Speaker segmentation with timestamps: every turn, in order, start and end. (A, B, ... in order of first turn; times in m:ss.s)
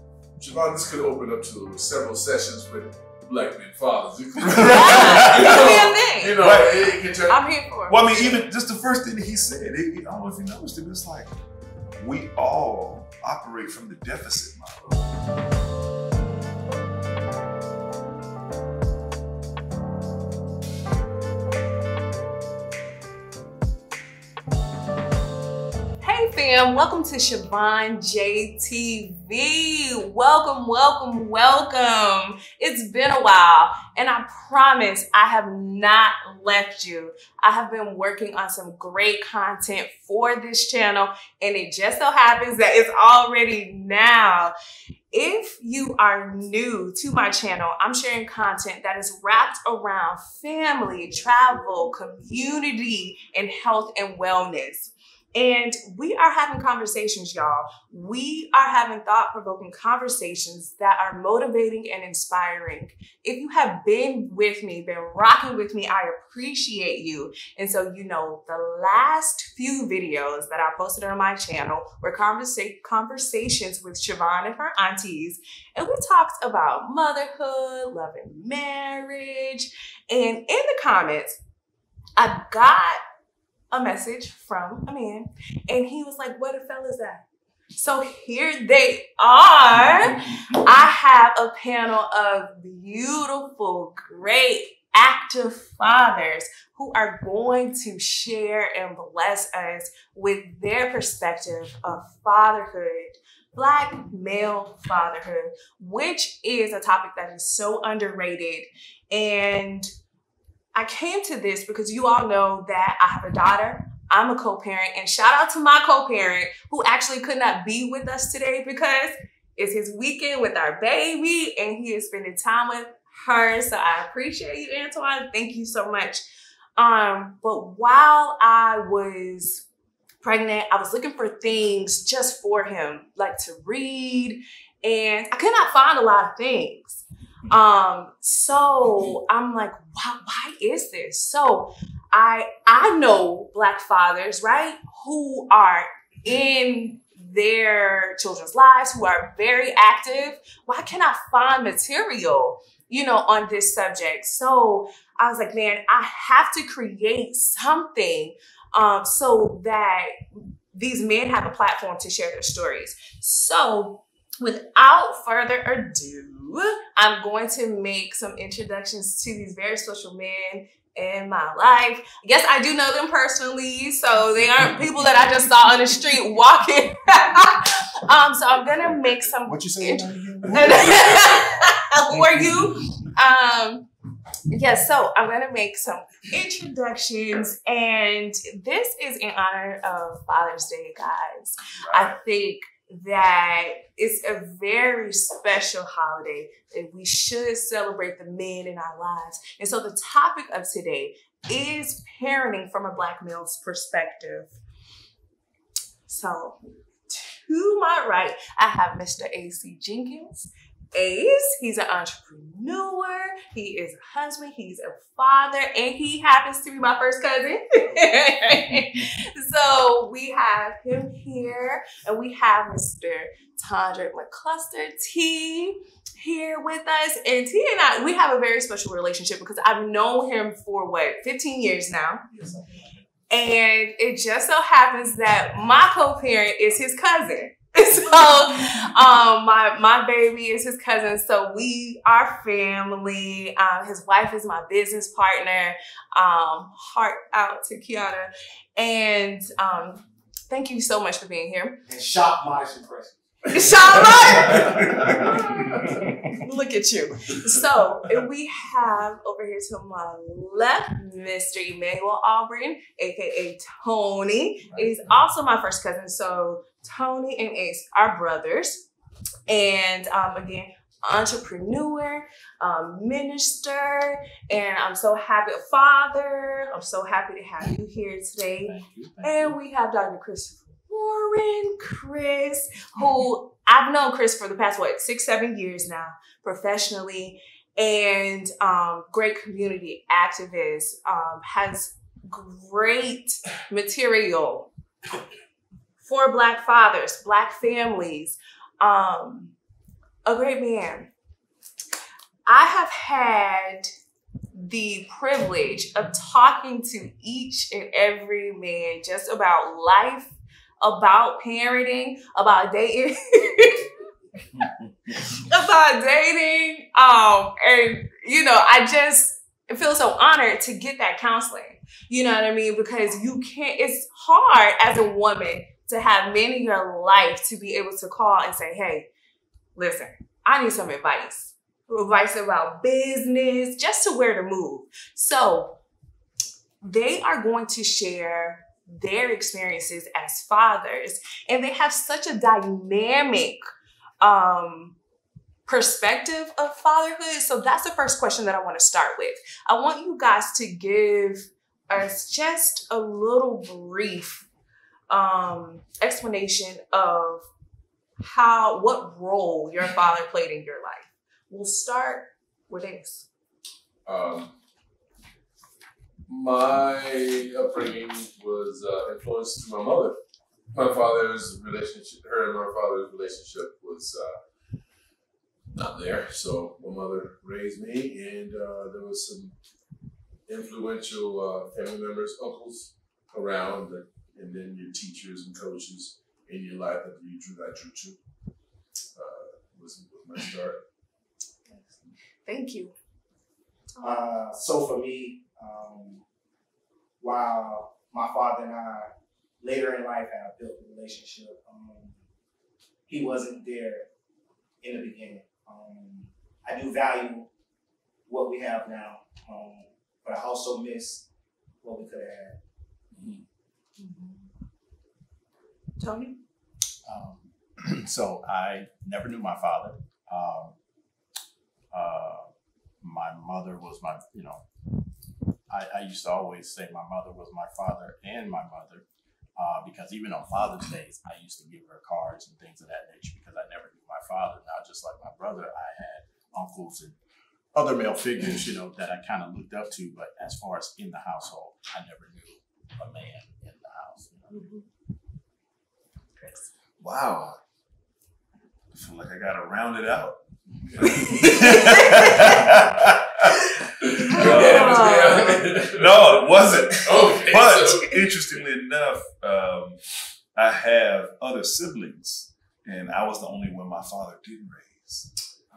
0:00.4-0:07.4 A
0:04.4-0:05.7 B
0:04.6-0:06.4 C
0:06.4-0:06.9 B
0:07.3-0:08.3 C
0:07.9-0:11.3 B
0:12.0-0:15.0 B
0:26.0-0:44.5 C
0:45.1-1:21.4 C
1:22.2-1:23.0 C
1:23.7-1:27.2 C
1:27.7-1:49.9 C
1:50.7-2:06.2 C
2:06.8-2:09.6 C
2:10.2-2:40.1 C
2:40.7-3:03.9 C
2:59.4-3:01.4 D
3:04.5-3:24.5 C
3:11.7-3:12.2 B
3:26.1-3:26.6 C
3:27.1-3:52.2 C
3:53.3-4:11.8 C
4:11.9-4:15.7 E
4:13.5-4:14.8 C
4:14.3-4:15.3 B
4:15.9-4:16.2 D
4:16.3-4:28.8 C
4:24.6-4:25.2 D
4:29.5-4:54.7 C
4:38.6-4:39.6 D
4:56.0-4:59.5 C
5:00.2-5:01.1 C
5:02.5-5:03.9 C
5:04.5-5:13.9 C
5:14.5-5:15.4 B
5:15.2-5:29.1 C
5:29.8-5:35.8 C
5:36.8-5:43.6 C
5:44.2-5:45.0 C
5:45.6-5:54.4 C
5:55.1-5:57.4 C
5:58.2-6:03.2 C
6:04.0-6:04.5 A
6:06.3-6:10.2 A
6:10.7-6:14.4 A
6:15.7-6:19.5 A
6:20.5-6:28.2 A
6:29.1-6:30.8 A
6:32.4-6:32.9 C
6:33.9-6:34.3 C
6:34.0-6:36.2 E
6:37.2-6:39.1 E
6:39.6-6:42.1 E
6:43.1-6:44.0 E
6:44.8-6:47.5 E
6:48.3-6:51.2 E
6:51.8-6:52.6 E
6:53.1-6:53.4 D
6:54.0-6:54.4 C
6:56.0-6:56.4 C
6:57.0-7:00.7 D
7:01.9-7:02.5 D
7:03.0-7:04.6 D
7:05.7-7:09.0 D
7:09.6-7:17.2 D
7:17.7-7:24.6 D
7:24.5-7:24.8 C
7:26.4-7:26.7 C
7:27.0-7:27.6 B
7:28.9-7:30.4 B
7:30.9-7:31.6 A
7:31.0-7:32.6 C
7:31.1-7:33.5 B
7:34.0-7:38.2 A
7:34.4-7:40.0 B
7:34.5-7:35.6 C
7:40.5-7:45.3 B